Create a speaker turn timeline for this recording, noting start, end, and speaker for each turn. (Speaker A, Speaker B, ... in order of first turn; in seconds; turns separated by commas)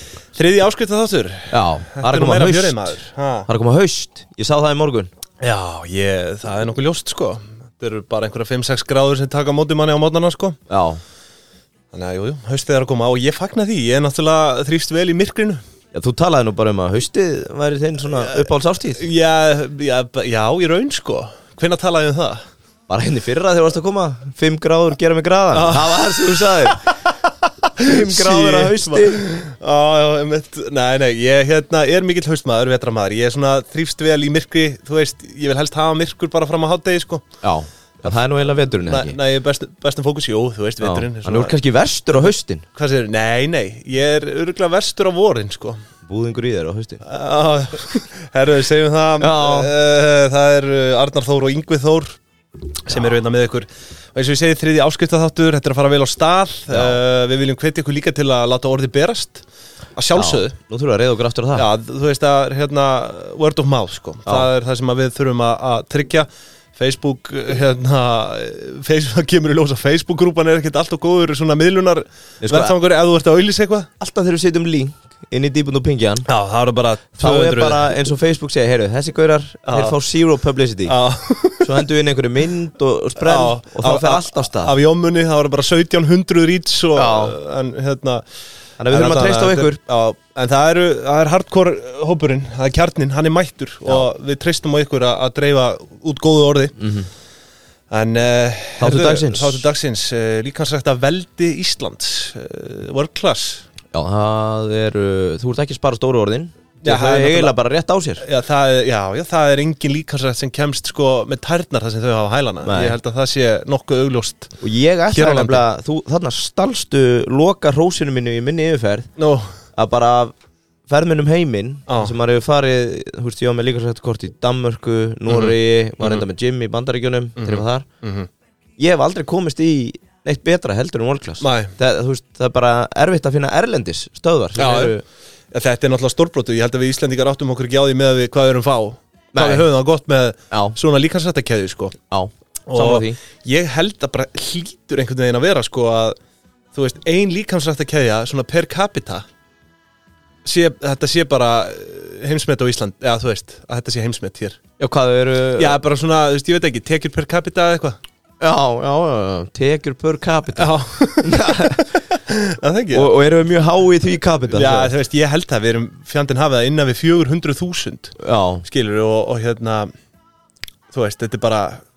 Speaker A: 0.3-3.5, Speaker B: 1.5-5.1, Speaker A: 5.4-10.6, Speaker B: 10.7-11.0, Speaker A: 11.9-15.6, Speaker B: 15.9-19.0, Speaker A: 18.1-22.4, Speaker B: 22.9-27.0, Speaker A: 25.5-26.8, Speaker A: 27.4-37.2, Speaker B: 27.8-29.3, Speaker B: 37.4-39.2, Speaker A: 38.8-41.6, Speaker B: 40.8-42.6, Speaker A: 42.2-45.8, Speaker B: 46.0-47.0, Speaker A: 47.0-52.2, Speaker B: 49.2-49.7, Speaker A: 52.9-59.4, Speaker B: 56.7-57.0, Speaker A: 60.0-60.5, Speaker B: 60.1-61.7, Speaker A: 61.5-73.9, Speaker B: 72.4-72.7, Speaker B: 74.0-76.3, Speaker A: 76.3-78.0, Speaker B: 77.2-81.0, Speaker A: 79.7-80.0, Speaker A: 80.8-81.8, Speaker B: 81.6-84.8, Speaker A: 83.2-88.2, Speaker B: 87.0-87.3, Speaker B: 88.8-89.8, Speaker A: 88.9-96.8, Speaker B: 96.8-97.1, Speaker A: 97.9-103.7, Speaker B: 98.8-99.7, Speaker B: 103.9-108.2, Speaker A: 106.8-107.5, Speaker A: 108.2-114.5, Speaker B: 112.7-113.0, Speaker B: 114.6-119.1, Speaker A: 115.1-115.7, Speaker A: 119.2-119.5, Speaker B: 119.8-120.3, Speaker B: 120.9-127.8, Speaker A: 121.9-122.2, Speaker A: 125.3-126.2, Speaker A: 127.4-128.3, Speaker B: 128.8-135.0, Speaker A: 131.4-131.8, Speaker A: 134.6-135.0, Speaker A: 135.5-142.0, Speaker B: 139.3-139.7, Speaker B: 140.5-140.8, Speaker B: 142.1-143.2, Speaker A: 142.7-146.2, Speaker A: 146.7-149.3, Speaker A: 150.4-154.6, Speaker B: 154.8-155.8, Speaker A: 155.6-158.0, Speaker B: 158.4-162.0, Speaker A: 160.6-163.1, Speaker B: 162.9-164.9, Speaker A: 164.5-169.9, Speaker B: 168.2-168.6, Speaker A: 170.9-171.8